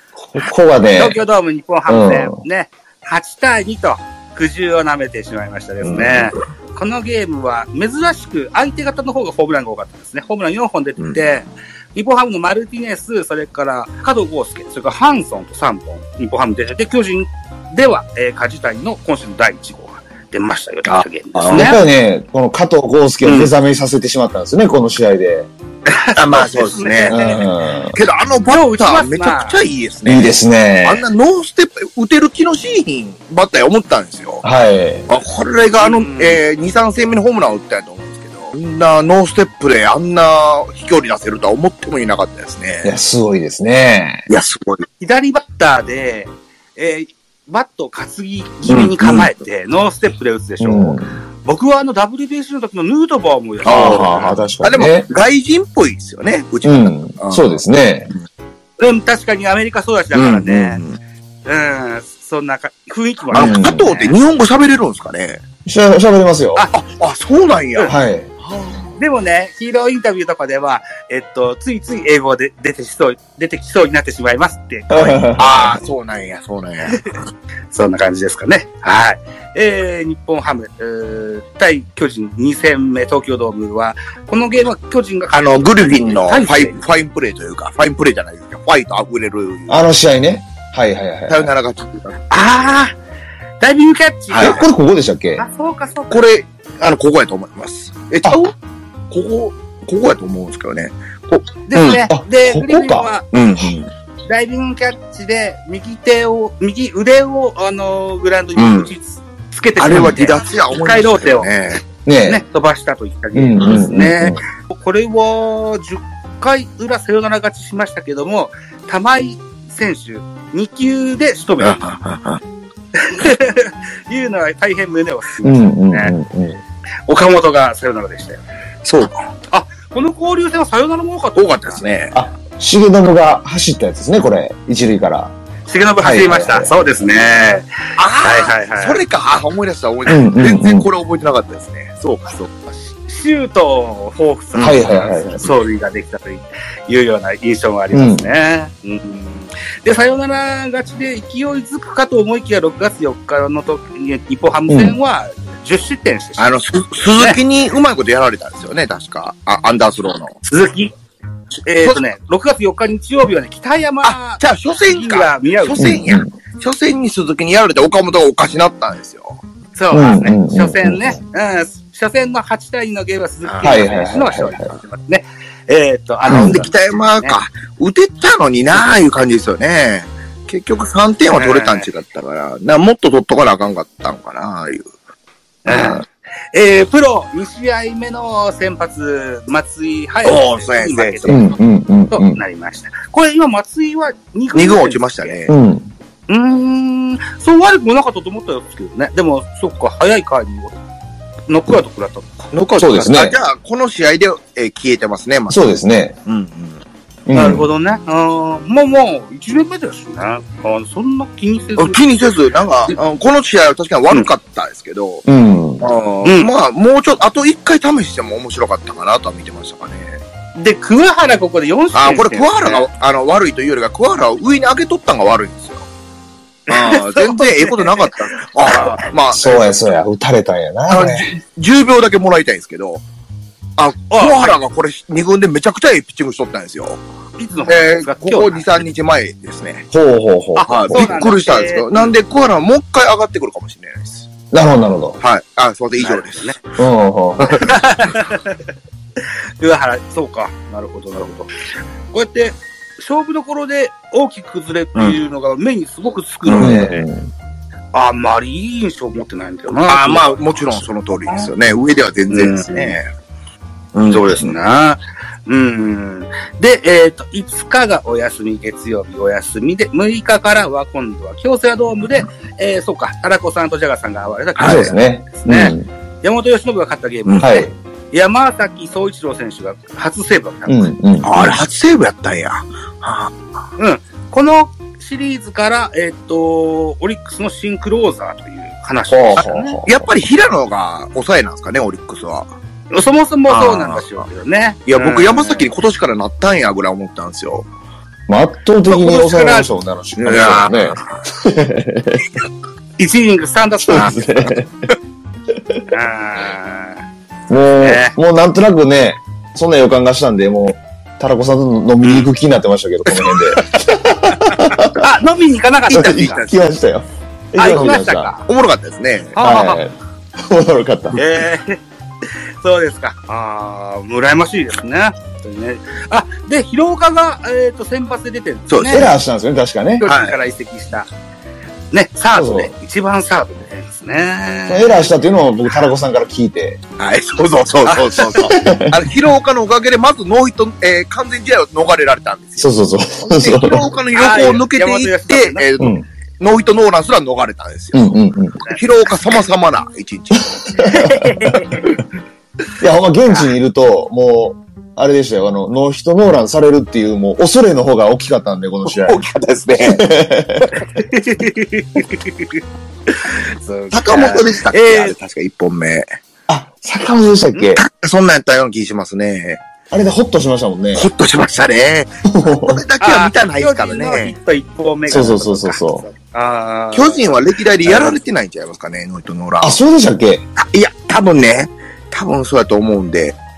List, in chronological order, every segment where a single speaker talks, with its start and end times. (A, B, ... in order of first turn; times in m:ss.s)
0:00.4-0:01.2 A
0:01.0-0:21.8 B
0:01.9-0:02.4 A
0:05.8-0:06.3 C
0:20.9-0:21.8 C
0:21.5-0:25.5 A
0:23.2-0:23.5 C
0:25.9-0:27.5 B
0:26.2-0:27.2 C
0:27.1-0:27.9 A
0:27.9-0:34.4 C
0:28.4-0:29.6 B
0:30.1-0:31.0 A
0:34.4-0:35.1 A
0:35.1-0:42.9 C
0:35.8-0:36.4 B
0:42.8-0:44.2 A
0:44.3-0:44.9 C
0:45.0-0:54.5 B
0:48.7-0:49.3 C
0:50.6-0:51.2 A
0:53.6-0:55.0 A
0:53.6-0:57.6 C
0:56.6-0:58.1 A
0:58.8-1:00.8 B
1:00.1-1:01.0 C
1:01.5-1:04.2 B
1:03.3-1:03.9 A
1:03.3-1:05.4 C
1:05.7-1:06.6 A
1:06.7-1:09.0 C
1:07.9-1:08.3 A
1:09.0-1:15.3 B
1:14.9-1:15.8 A
1:15.4-1:17.1 C
1:16.9-1:17.2 B
1:17.7-1:26.8 B
1:25.3-1:29.9 C
1:29.7-1:31.5 A
1:31.3-1:32.2 C
1:32.3-1:32.9 B
1:33.6-1:34.6 B
1:34.3-1:34.6 C
1:34.4-1:35.4 A
1:35.4-1:36.2 B
1:36.1-1:38.5 C
1:39.1-1:42.0 C
1:41.7-1:43.3 B
1:42.1-1:43.1 A
1:43.3-1:43.9 C
1:44.3-1:51.5 B
1:48.6-1:48.9 C
1:49.8-1:51.8 C
1:52.1-1:52.4 A
1:52.3-2:01.8 B
1:53.4-1:54.4 A
1:53.6-1:53.9 C
2:01.6-2:02.4 C
2:02.9-2:06.1 B
2:05.4-2:06.6 A
2:07.1-2:08.4 B
2:08.8-2:09.3 C
2:09.5-2:11.9 B
2:11.4-2:12.2 C
2:12.1-2:15.3 A
2:15.7-2:19.0 B
2:16.0-2:17.1 A
2:18.0-2:22.5 C
2:20.1-2:20.9 A
2:22.8-2:36.6 B
2:24.6-2:25.6 A
2:27.9-2:28.3 A
2:34.7-2:35.0 A
2:36.4-2:40.4 C
2:40.4-2:40.9 B
2:41.7-2:45.9 B
2:44.0-2:49.4 C
2:45.8-2:46.3 A
2:49.8-2:57.4 B
2:49.9-2:51.2 A
2:53.4-2:53.8 C
2:53.6-2:54.7 A
2:56.3-3:04.9 C
2:56.3-2:56.6 A
3:01.3-3:01.9 B
3:05.6-3:06.0 C
3:05.7-3:11.6 B
3:10.2-3:11.5 C
3:11.3-3:12.4 A
3:12.1-3:15.4 B
3:14.6-3:15.5 C
3:15.5-3:15.9 A
3:16.3-3:20.8 B
3:21.5-3:22.5 B
3:22.5-3:25.7 C
3:22.8-3:23.4 A
3:25.5-3:26.2 A
3:26.3-3:26.8 C
3:27.3-3:27.7 A
3:27.3-3:32.3 B
3:31.8-3:35.2 C
3:35.3-3:35.8 A
3:35.8-3:40.2 C
3:36.2-3:36.5 B
3:40.6-3:42.9 B
3:41.9-3:45.9 C
3:46.7-3:49.7 C
3:46.7-3:49.1 B
3:49.3-3:51.3 A
3:50.9-3:53.0 C
3:53.8-3:57.0 C
3:54.1-3:54.6 B
3:57.4-3:58.7 B
3:57.7-3:59.9 C
3:59.9-4:01.2 A
4:00.6-4:02.1 B
4:00.6-4:04.3 C
4:04.5-4:05.2 A
4:05.2-4:06.6 C
4:06.0-4:06.6 B
4:06.8-4:07.6 A
4:07.5-4:08.7 B
4:09.6-4:11.5 B
4:12.1-4:16.9 B
4:16.4-4:17.0 C
4:16.6-4:17.3 A
4:17.9-4:21.5 B
4:19.9-4:23.1 C
4:22.3-4:23.0 B
4:23.9-4:24.6 C
4:24.1-4:40.9 B
4:34.6-4:34.9 C
4:34.6-4:35.9 A
4:37.3-4:37.6 C
4:37.4-4:37.7 A
4:40.7-4:41.6 A
4:41.2-4:43.4 C
4:43.8-4:49.8 B
4:49.1-4:52.5 C
4:49.4-4:50.1 A
4:52.9-4:55.7 B
4:53.5-4:54.3 C
4:54.9-4:57.7 C
4:58.3-5:02.3 A
4:58.9-4:59.7 B
5:00.2-5:01.2 C
5:03.0-5:04.3 B
5:03.8-5:04.9 A
5:03.9-5:04.5 C
5:05.5-5:05.8 A
5:05.9-5:07.0 B
5:07.5-5:15.0 A
5:07.8-5:08.2 B
5:14.3-5:16.6 B
5:15.9-5:18.3 A
5:15.9-5:16.3 C
5:17.6-5:18.4 B
5:18.4-5:19.4 C
5:19.4-5:19.8 B
5:19.4-5:21.2 A
5:21.2-5:29.1 B
5:28.7-5:29.2 C
5:28.9-5:30.0 A
5:30.0-5:31.1 B
5:30.0-5:30.4 C
5:31.9-5:35.2 B
5:32.4-5:32.7 A
5:34.7-5:36.8 A
5:37.0-5:48.2 C
5:37.9-5:38.5 B
5:38.4-5:39.0 A
5:42.6-5:43.9 A
5:44.1-5:45.7 B
5:45.8-5:46.0 A
5:47.9-5:48.6 A
5:48.7-5:50.9 C
5:50.6-5:52.0 A
5:50.8-5:51.9 B
5:52.8-5:59.2 A
5:58.9-6:00.0 C
5:59.8-6:00.8 A
6:00.7-6:05.2 B
6:03.9-6:06.1 C
6:06.5-6:07.8 A
6:07.8-6:09.6 C
6:09.9-6:11.0 A
6:10.9-6:14.4 C
6:12.3-6:12.8 A
6:13.0-6:18.2 B
6:15.1-6:16.0 A
6:16.9-6:19.8 C
6:19.6-6:20.5 A
6:20.6-6:23.4 C